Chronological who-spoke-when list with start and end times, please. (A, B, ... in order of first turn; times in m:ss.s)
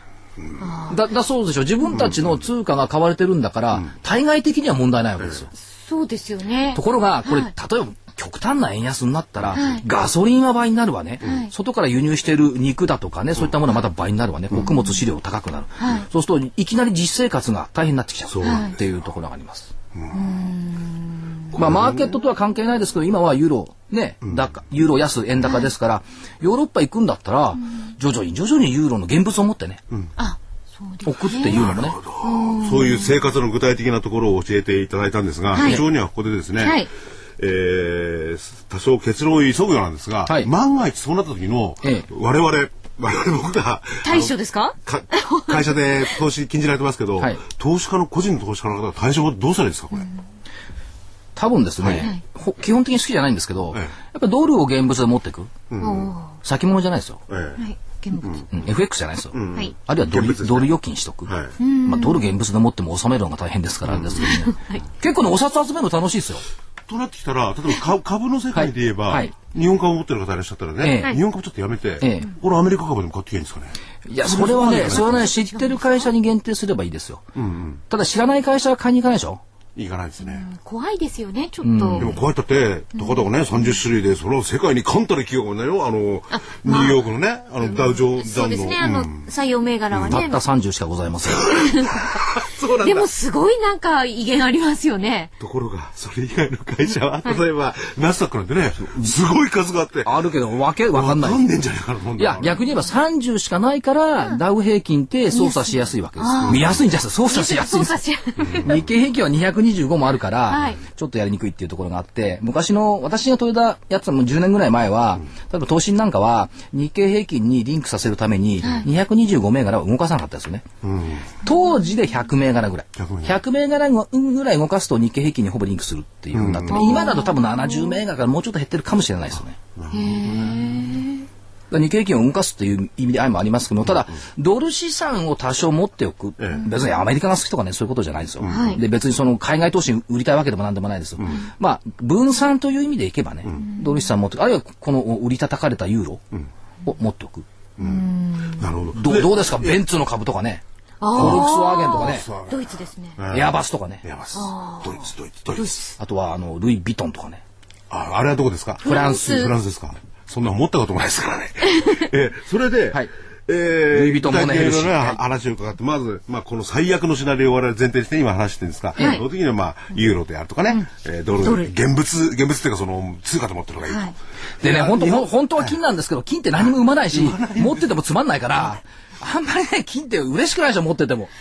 0:00.4-0:00.6 A
0:00.6-0:01.0 B
0:00.9-0:05.5 C
0:01.9-0:02.3 A
0:05.6-0:07.5 B
0:06.7-0:19.7 C
0:09.5-0:09.8 B
0:11.2-0:11.5 B
0:15.8-0:16.0 B
0:18.3-0:18.8 A
0:18.4-0:18.7 B
0:19.9-0:20.2 A
0:20.1-0:21.4 B
0:21.5-0:22.1 A
0:21.5-0:29.8 C
0:30.2-0:33.2 B
0:31.0-0:32.0 C
0:31.5-0:36.9 A
0:35.5-0:35.8 B
0:36.6-0:36.9 B
0:37.4-0:44.3 A
0:44.0-0:46.2 B
0:44.8-0:50.1 A
0:51.4-0:55.5 C
0:51.8-0:52.1 A
0:55.7-0:56.1 A
0:55.8-0:56.3 B
0:56.4-0:57.2 C
0:57.3-0:57.6 A
0:57.6-0:58.4 B
0:58.5-1:06.4 C
0:59.3-1:00.7 A
1:01.3-1:01.5 A
1:01.6-1:02.3 B
1:03.9-1:04.3 A
1:04.2-1:04.8 B
1:06.9-1:15.3 A
1:08.5-1:09.3 C
1:10.8-1:11.2 C
1:12.0-1:12.3 C
1:14.1-1:17.2 C
1:14.8-1:16.0 B
1:17.3-1:17.8 A
1:17.9-1:19.4 C
1:19.8-1:20.4 A
1:20.2-1:22.1 B
1:21.6-1:22.1 C
1:22.0-1:29.3 A
1:26.3-1:27.0 B
1:27.6-1:30.4 B
1:29.9-1:30.2 A
1:30.1-1:31.6 C
1:31.3-1:33.1 A
1:31.5-1:32.2 B
1:32.8-1:35.3 B
1:35.4-1:40.1 A
1:38.8-1:39.1 C
1:40.0-1:41.4 C
1:40.9-1:42.6 A
1:42.2-1:48.0 C
1:45.3-1:46.7 B
1:46.4-1:46.8 A
1:47.2-1:48.7 B
1:48.4-1:48.8 A
1:48.5-2:00.6 C
1:50.5-1:50.8 B
1:58.6-1:58.9 B
2:00.8-2:01.3 A
2:01.4-2:09.6 C
2:03.0-2:03.3 A
2:06.3-2:07.2 A
2:06.7-2:07.9 B
2:09.8-2:10.7 A
2:09.9-2:11.3 B
2:11.7-2:26.2 C
2:16.4-2:16.6 A
2:18.4-2:18.8 A
2:18.4-2:18.8 B
2:23.6-2:24.0 B
2:26.8-2:27.4 C
2:27.8-2:29.8 A
2:27.8-2:28.7 B
2:28.9-2:32.3 C
2:31.0-2:33.2 B
2:31.1-2:33.5 A
2:33.3-2:34.0 C
2:34.0-2:35.7 A
2:34.3-2:36.0 B
2:36.0-2:37.4 C
2:37.9-2:55.8 A
2:38.8-2:39.6 B
2:41.7-2:42.0 B
2:43.9-2:45.2 C
2:49.0-2:49.2 B
2:51.4-2:51.7 B
2:53.9-2:54.1 B
2:54.6-3:01.3 C
2:56.7-2:57.9 A